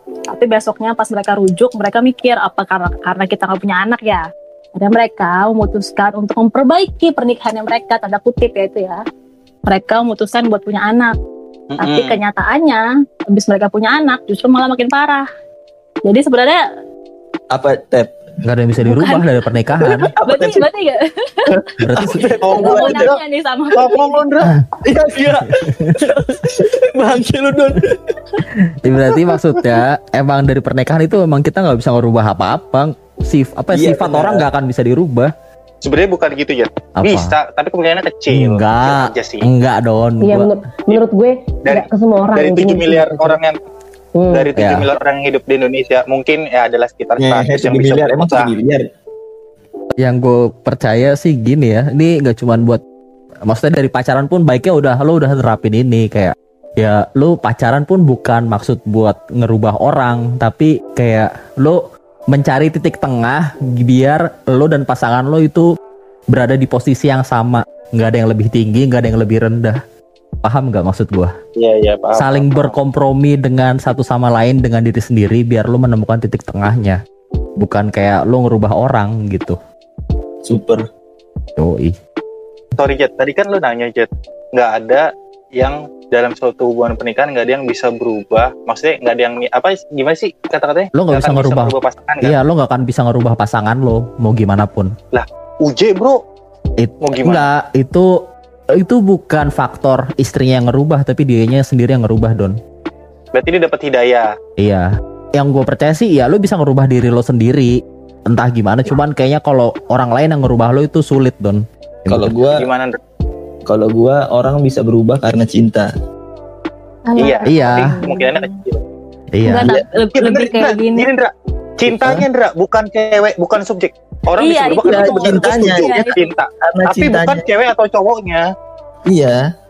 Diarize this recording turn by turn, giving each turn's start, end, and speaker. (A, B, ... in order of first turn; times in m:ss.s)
0:00.3-0:09.0 A
0:09.7-0:11.2 A
0:11.7-0:12.2 B
0:11.8-0:15.3 A
0:16.1-0:16.6 A
0:17.5-0:18.2 C
0:18.4-0:20.1 D
0:18.8-0:21.7 A
0:20.2-0:20.7 C
0:21.5-0:23.2 C
0:21.8-0:22.3 D
0:22.4-0:23.2 B
0:22.4-0:24.2 A
0:23.7-0:24.5 B
0:24.8-0:28.4 C
0:25.5-0:26.2 D
0:28.8-0:35.3 D
0:33.7-0:34.5 C
0:35.8-0:39.5 B
0:37.0-0:37.4 D
0:38.3-0:40.5 D
0:40.2-0:43.4 E
0:41.7-0:43.6 B
0:44.2-0:44.5 E
0:44.3-0:48.5 B
0:44.6-0:44.9 D
0:47.2-0:48.9 C
0:50.0-0:52.8 D
0:53.5-1:05.7 D
1:06.3-1:09.8 D
1:10.4-1:11.3 D
1:11.6-1:12.8 B
1:12.2-1:17.0 D
1:17.6-1:19.6 D
1:20.4-1:20.8 C
1:21.6-1:22.0 D
1:22.8-1:32.4 B
1:30.9-1:34.9 D
1:35.1-1:36.2 B
1:36.8-1:38.2 D
1:37.0-1:37.5 B
1:38.8-1:42.6 D
1:43.3-1:44.3 B
1:44.6-1:47.7 D
1:48.3-1:52.4 D
1:52.1-1:52.7 C
1:52.6-1:53.0 B
1:53.7-1:55.9 C
1:57.1-1:58.6 A
1:57.2-1:58.8 B
1:57.4-1:57.9 D
1:59.3-1:59.8 D
1:59.4-2:01.1 A
2:00.2-2:08.4 B
2:01.9-2:02.2 C
2:04.4-2:06.3 A
2:04.8-2:07.4 C
2:09.1-2:09.4 C